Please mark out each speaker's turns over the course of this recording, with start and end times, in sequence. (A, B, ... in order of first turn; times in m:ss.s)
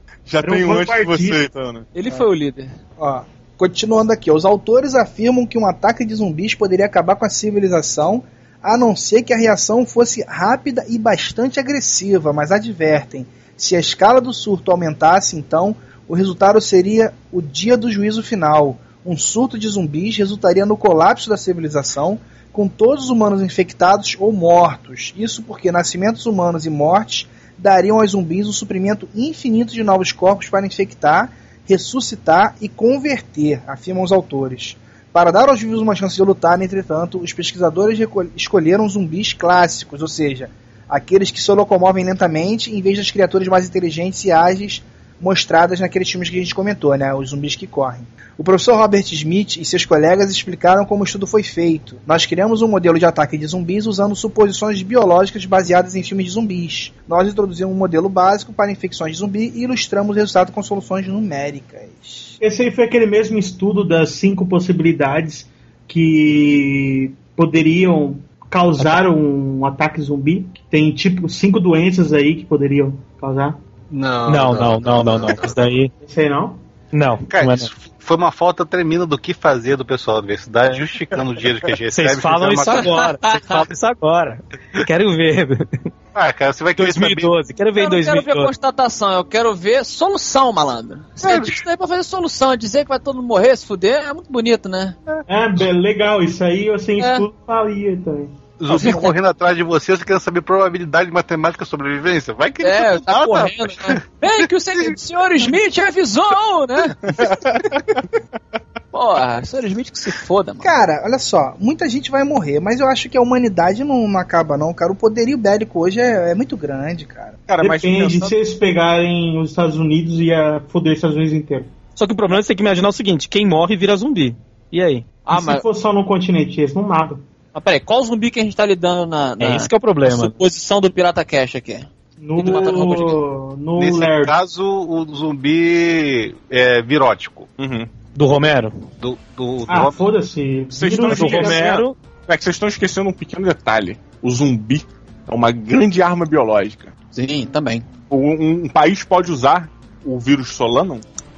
0:00.3-0:01.8 A
0:00.4-0:01.4 B
0:01.9-0:02.7 C
0:03.0-1:02.4 D
1:02.4-1:13.6 B
1:13.9-1:15.6 E
1:14.3-1:15.9 F
1:16.0-1:16.6 B
1:16.9-1:17.7 F
1:17.3-1:23.0 E
1:21.9-1:25.7 F
1:22.7-1:23.6 C
1:26.1-1:27.3 E
1:26.8-1:28.5 F
1:27.8-1:35.0 C
1:31.2-1:31.6 E
1:35.3-1:38.4 B
1:37.0-1:37.2 C
1:38.6-1:44.0 E
1:38.7-1:39.1 C
1:42.6-1:47.2 C
1:47.1-1:48.0 A
1:48.9-1:50.7 C
1:50.6-1:57.4 D
1:57.5-1:58.3 A
1:57.6-2:01.7 B
2:02.0-2:05.1 F
2:05.3-2:05.6 C
2:05.3-2:07.3 B
2:07.5-2:13.2 C
2:09.4-2:10.4 F
2:12.2-2:14.4 B
2:13.8-2:17.5 E
2:17.6-2:17.9 A
2:18.2-2:18.7 F
2:19.0-2:20.1 E
2:19.7-2:21.6 B
2:20.7-2:26.9 A
2:21.0-2:21.9 F
2:27.1-2:27.8 C
2:28.1-2:31.0 A